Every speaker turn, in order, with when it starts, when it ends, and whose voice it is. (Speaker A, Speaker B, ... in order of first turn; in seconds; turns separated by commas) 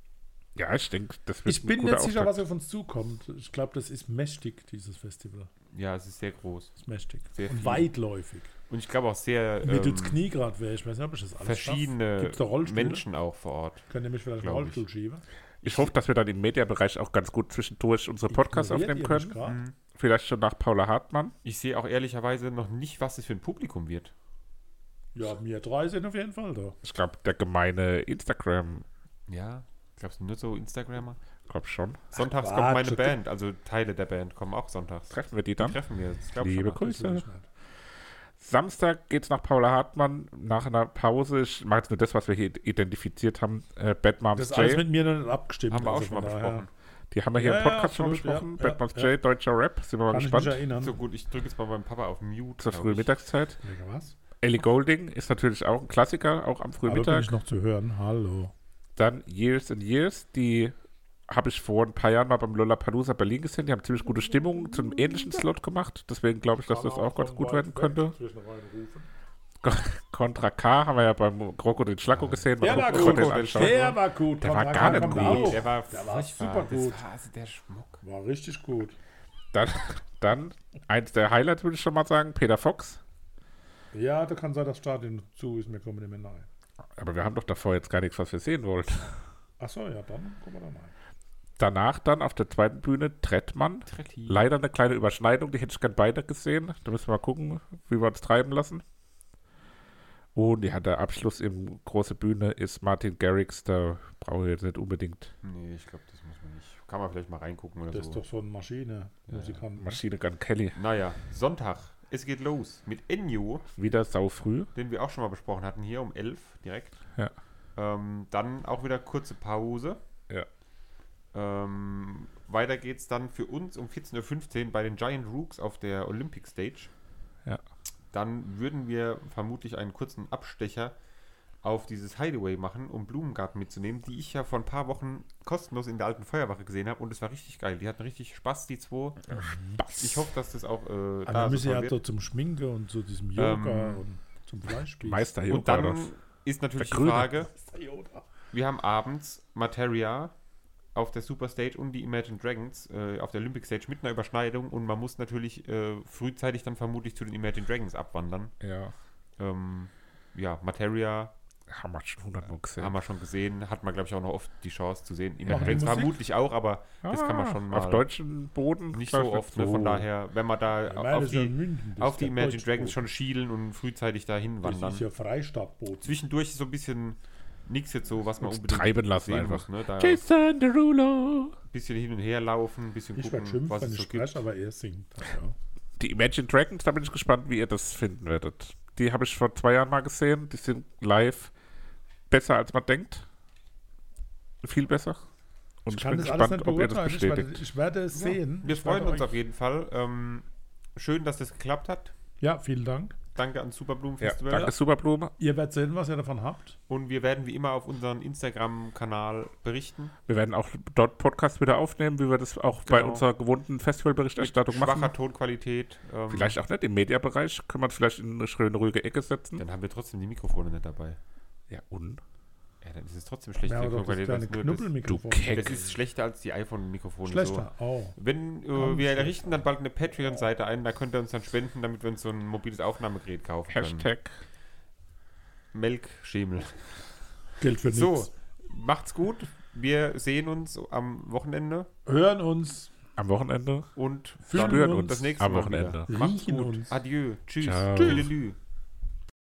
Speaker A: 0.6-2.4, Speaker B: 1.4-5.5, Speaker C: 5.7-6.7, Speaker B: 6.8-8.5, Speaker C: 7.3-7.9, Speaker C: 8.7-10.2, Speaker B: 9.6-13.1, Speaker C: 11.4-13.8, Speaker B: 13.9-15.2, Speaker C: 14.4-14.8, Speaker A: 15.6-19.4, Speaker C: 15.6-15.9, Speaker B: 18.3-19.6, Speaker C: 19.4-19.7, Speaker A: 19.9-21.3, Speaker C: 21.4-24.1, Speaker B: 25.1-26.8, Speaker A: 26.8-28.8, Speaker C: 29.3-31.2, Speaker A: 31.5-32.0, Speaker B: 32.1-33.2, Speaker C: 32.1-36.8, Speaker A: 35.1-35.8, Speaker A: 36.4-37.2, Speaker B: 36.7-37.5, Speaker A: 38.4-44.8, Speaker B: 44.3-46.7, Speaker C: 45.7-46.7, Speaker A: 47.1-50.6, Speaker B: 47.3-49.2, Speaker B: 50.1-51.0, Speaker C: 50.8-53.1, Speaker A: 52.6-53.6, Speaker B: 53.6-54.1, Speaker A: 54.4-57.3, Speaker B: 56.8-58.5, Speaker A: 59.0-60.7, Speaker A: 61.3-68.1, Speaker B: 66.5-69.1, Speaker A: 69.6-75.7, Speaker B: 72.5-77.0, Speaker C: 72.7-74.0, Speaker C: 74.7-78.0, Speaker B: 78.0-78.9, Speaker A: 79.5-83.0, Speaker B: 83.9-86.5, Speaker A: 87.0-89.1, Speaker B: 89.6-90.9, Speaker A: 91.6-98.8, Speaker C: 93.9-94.5, Speaker A: 100.3-105.3, Speaker C: 105.4-108.2, Speaker B: 107.9-110.0, Speaker C: 109.3-109.6, Speaker A: 109.8-110.8, Speaker C: 110.7-113.7, Speaker A: 113.8-114.7, Speaker C: 114.7-117.0, Speaker C: 117.8-120.0, Speaker C: 121.3-126.9, Speaker C: 128.1-130.9, Speaker C: 131.6-139.4, Speaker A: 139.3-140.3, Speaker B: 139.3-139.8, Speaker C: 139.9-142.0, Speaker B: 141.2-145.3, Speaker C: 143.4-144.0, Speaker A: 145.0-146.1, Speaker C: 145.5-147.5, Speaker A: 146.8-147.3, Speaker B: 147.4-148.2, Speaker C: 148.5-150.3, Speaker C: 150.9-158.5, Speaker A: 158.6-158.9, Speaker C: 159.4-161.3, Speaker A: 161.7-162.9, Speaker C: 162.8-168.1, Speaker B: 165.4-166.2, Speaker A: 167.0-170.1, Speaker C: 168.9-175.0, Speaker B: 170.8-173.0, Speaker B: 174.6-176.2, Speaker C: 176.0-180.2, Speaker A: 178.4-181.5, Speaker C: 181.7-184.4, Speaker B: 183.1-185.5, Speaker A: 186.0-191.5, Speaker A: 192.3-193.2, Speaker A: 194.6-195.2, Speaker A: 195.8-197.6, Speaker B: 195.9-199.4, Speaker C: 198.1-202.1, Speaker B: 202.4-203.2, Speaker C: 203.3-204.7, Speaker A: 204.2-205.3, Speaker B: 205.4-206.8, Speaker C: 206.9-210.1, Speaker A: 210.3-215.1, Speaker C: 212.8-213.2, Speaker C: 214.4-216.6, Speaker A: 216.3-219.6, Speaker C: 219.6-221.2, Speaker A: 221.7-222.2, Speaker C: 222.8-224.9, Speaker B: 223.6-225.9, Speaker A: 225.0-225.8, Speaker C: 225.5-234.1, Speaker B: 227.2-228.2, Speaker B: 228.7-229.6, Speaker A: 233.7-234.4, Speaker C: 235.7-237.0, Speaker B: 237.6-238.3, Speaker C: 237.8-241.9, Speaker B: 242.1-242.9, Speaker A: 243.2-243.9, Speaker C: 243.9-248.6, Speaker B: 244.4-245.5, Speaker A: 244.5-246.1, Speaker B: 246.1-247.0, Speaker A: 247.6-248.3, Speaker B: 247.9-248.3